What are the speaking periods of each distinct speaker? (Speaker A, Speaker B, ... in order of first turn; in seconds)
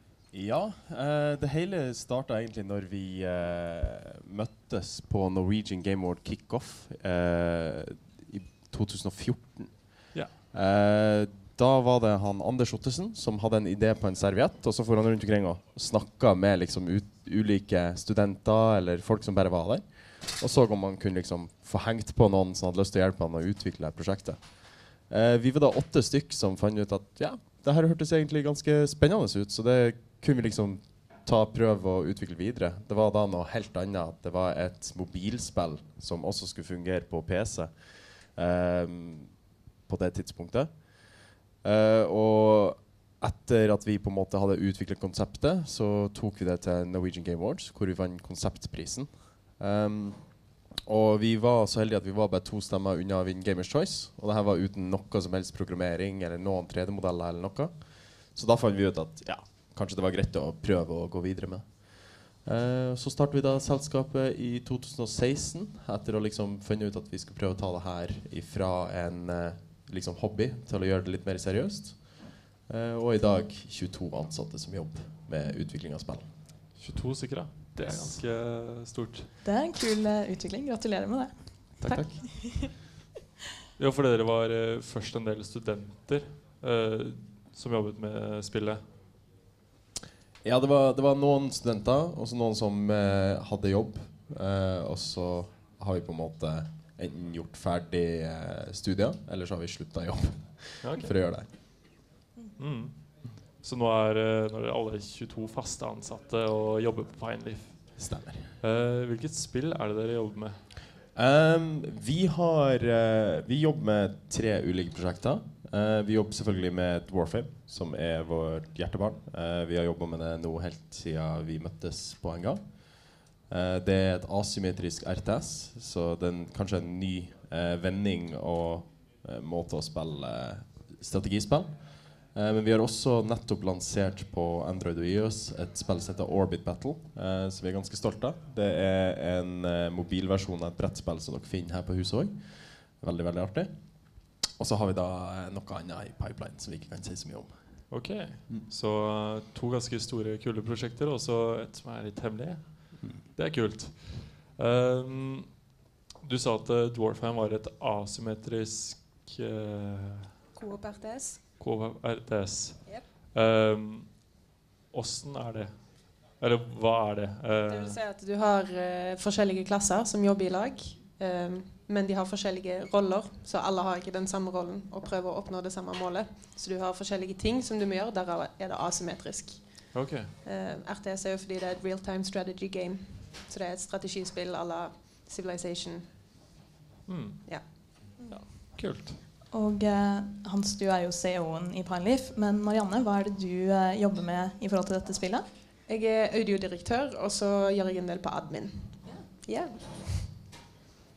Speaker A: 0.3-76.4, 81.8-82.6, 90.4-101.9, 108.0-108.5, 111.1-148.7
Speaker B: 76.7-79.3, 81.8-82.2, 83.8-88.9, 100.8-101.1, 102.6-110.6, 147.9-155.7, 156.2-160.3, 161.6-164.3, 164.9-168.0, 179.9-180.3, 187.1-189.2
Speaker C: 79.4-82.7, 189.5-195.4
Speaker D: 160.5-161.4, 162.8-163.1, 167.7-186.2, 195.9-200.3